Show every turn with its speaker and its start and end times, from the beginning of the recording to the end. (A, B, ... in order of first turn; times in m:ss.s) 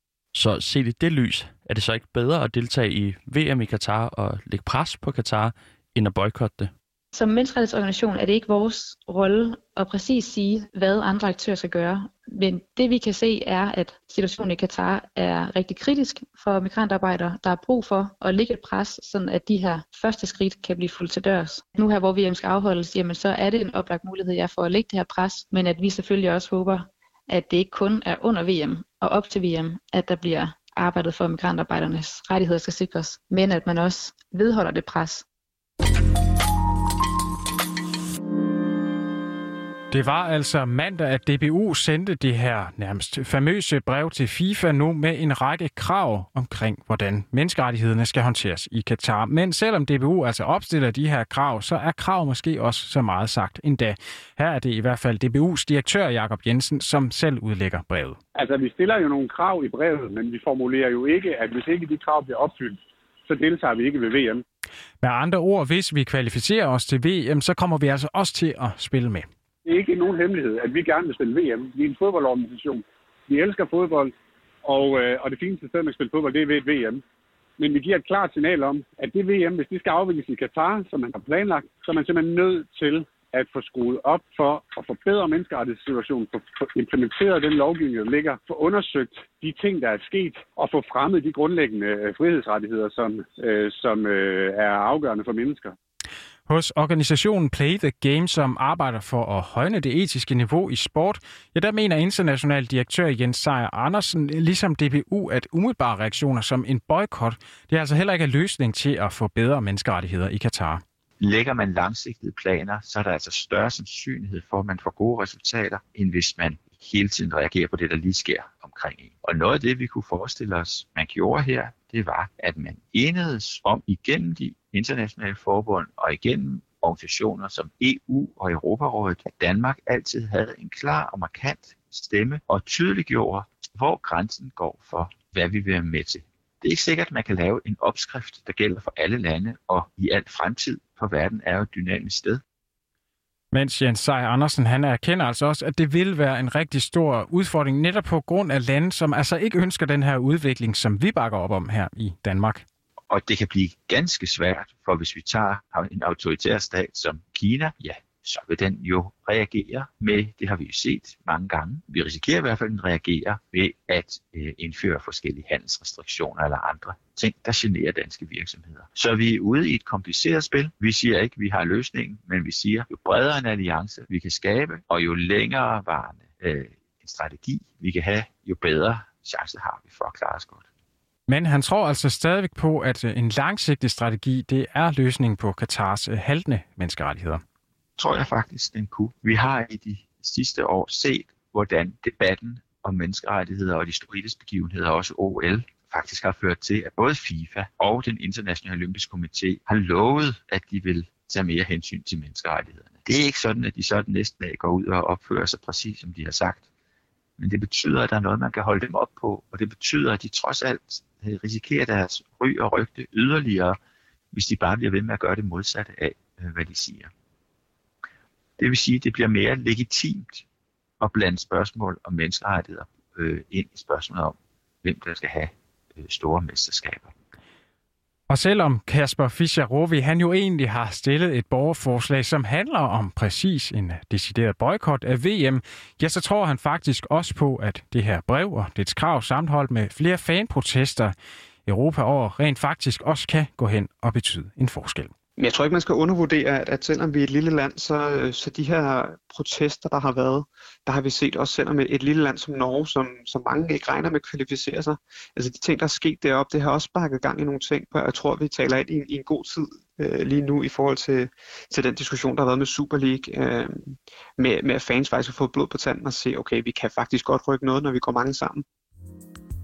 0:00.3-0:06.7 A
0:07.1-0:35.2 B
0:39.9-0:58.2 C
0:58.4-1:04.4 D
1:05.0-1:09.2 C
1:09.6-1:14.1 D
1:14.6-1:17.0 D
1:17.6-1:35.7 D
1:36.5-1:50.8 C
1:51.2-2:22.4 E
2:23.5-2:32.6 C
2:33.1-3:00.6 E
3:01.3-3:07.4 C
3:08.0-3:26.6 E
3:27.4-3:33.8 E
3:34.3-3:37.1 E
3:38.6-3:40.4 E
3:41.0-3:47.1 E
3:48.3-4:01.1 C
4:01.6-4:05.1 C
4:05.4-4:28.6 F